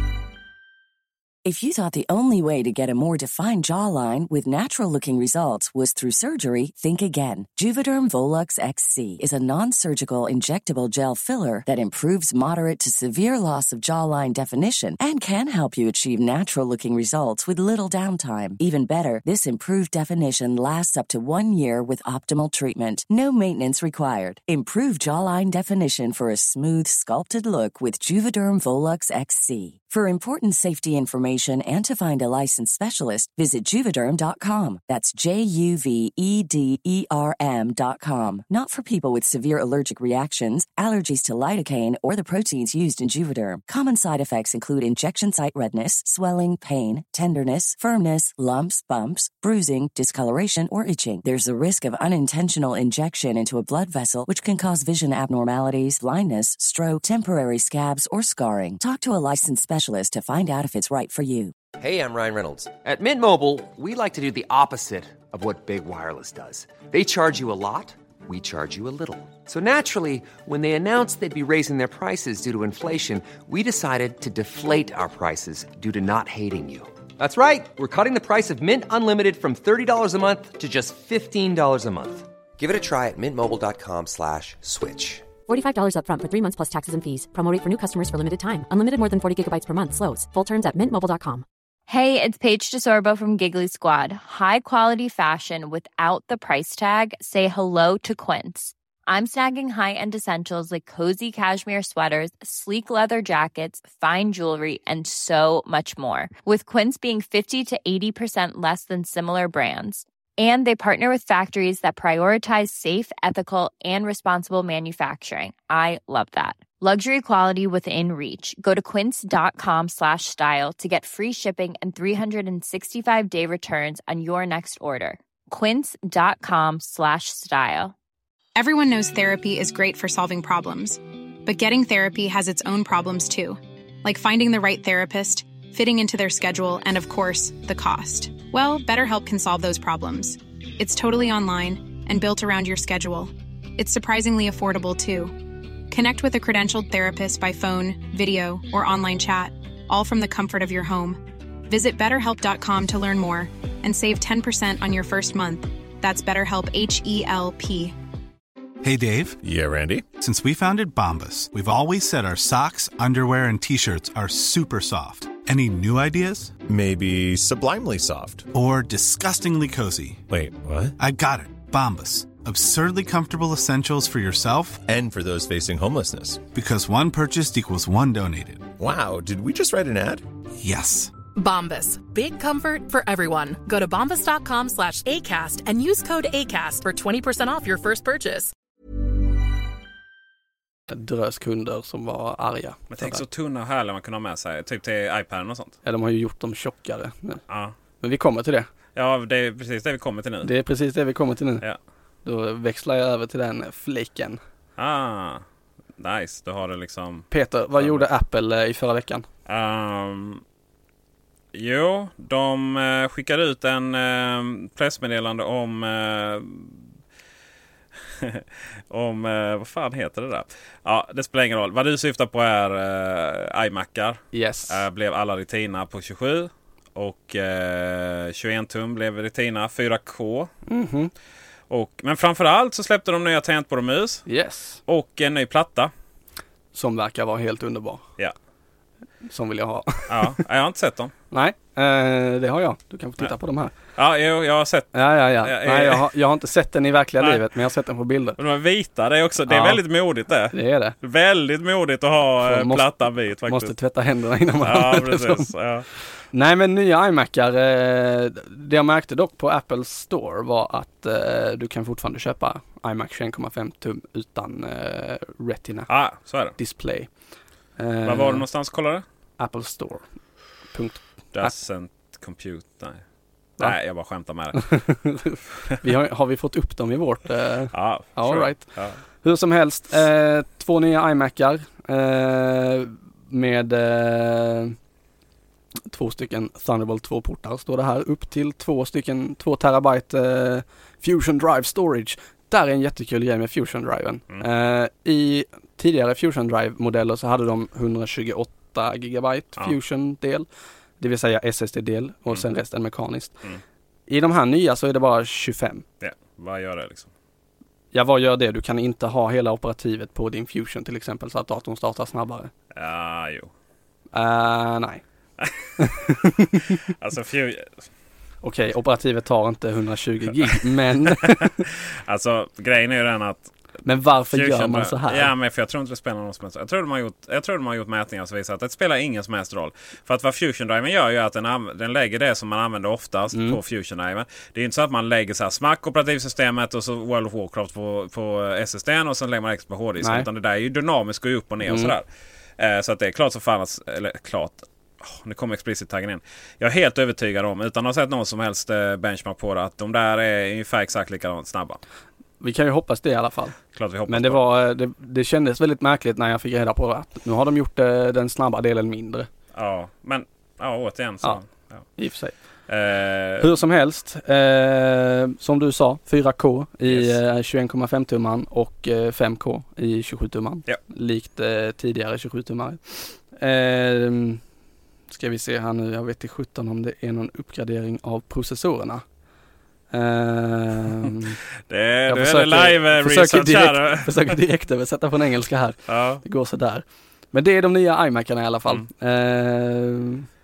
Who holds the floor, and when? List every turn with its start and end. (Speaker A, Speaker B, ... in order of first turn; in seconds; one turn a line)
Speaker A: 1.4-61.5
Speaker B: 61.8-85.2
Speaker C: 85.5-91.4
Speaker D: 91.9-127.9
Speaker E: 128.6-145.4
Speaker E: 145.9-157.9
Speaker F: 158.8-159.4
Speaker G: 159.4-160.1
Speaker F: 160.2-166.5
Speaker G: 166.7-168.5
Speaker F: 168.5-170.2
Speaker G: 170.3-170.9
Speaker F: 171.0-174.8
Speaker G: 174.9-176.5
Speaker F: 176.5-178.7
Speaker G: 178.8-180.2
Speaker F: 180.6-181.1
Speaker H: 181.3-188.5
Speaker I: 190.9-193.2
Speaker J: 192.9-195.8
Speaker I: 195.8-197.4
Speaker J: 197.5-197.7
Speaker I: 198.0-198.7
Speaker J: 198.9-200.5
Speaker I: 200.4-201.6
Speaker I: 202.2-204.4
Speaker J: 204.8-205.4
Speaker J: 206.0-208.0
Speaker I: 207.3-209.2
Speaker J: 209.4-210.4
Speaker J: 211.5-216.8
Speaker J: 218.2-230.5
Speaker I: 224.3-224.8
Speaker I: 230.7-231.1
Speaker J: 231.7-234.2
Speaker I: 234.3-234.8
Speaker J: 234.9-235.9
Speaker I: 236.7-238.0
Speaker I: 239.2-240.4
Speaker J: 240.1-241.1
Speaker I: 241.3-243.7
Speaker J: 243.9-246.1
Speaker I: 244.9-248.4
Speaker J: 247.2-247.4
Speaker J: 248.4-253.7
Speaker I: 249.5-249.8
Speaker I: 250.5-250.9
Speaker I: 252.4-252.9
Speaker I: 253.4-255.5
Speaker J: 254.6-255.9
Speaker I: 256.3-265.9
Speaker J: 265.9-266.5
Speaker I: 266.6-267.1
Speaker I: 267.8-268.4
Speaker J: 268.0-269.0
Speaker I: 269.4-270.0
Speaker I: 270.7-271.5
Speaker J: 271.3-273.0
Speaker J: 273.6-274.7
Speaker I: 274.5-278.7
Speaker J: 277.7-279.0
Speaker I: 279.2-284.8
Speaker I: 285.9-300.5
Speaker I: 301.0-303.3
Speaker I: 304.1-305.8
Speaker J: 306.0-307.1
Speaker I: 307.9-312.5
Speaker J: 312.7-313.5
Speaker I: 314.1-315.0
Speaker I: 315.8-316.8
Speaker J: 317.0-317.8
Speaker I: 318.4-321.6
Speaker J: 321.2-323.5
Speaker I: 323.8-325.3
Speaker J: 324.3-342.1
Speaker I: 333.3-333.6
Speaker I: 340.0-340.3
Speaker I: 341.6-341.9
Speaker J: 342.6-351.8
Speaker I: 352.4-353.6
Speaker J: 353.7-354.4
Speaker I: 354.1-359.3
Speaker J: 359.5-361.8
Speaker I: 362.0-362.3
Speaker J: 362.7-363.5
Speaker I: 363.4-374.4
Speaker J: 366.9-367.2
Speaker I: 375.1-379.0
Speaker I: 379.9-381.4
Speaker J: 381.7-384.3
Speaker I: 382.1-390.3
Speaker J: 385.9-386.2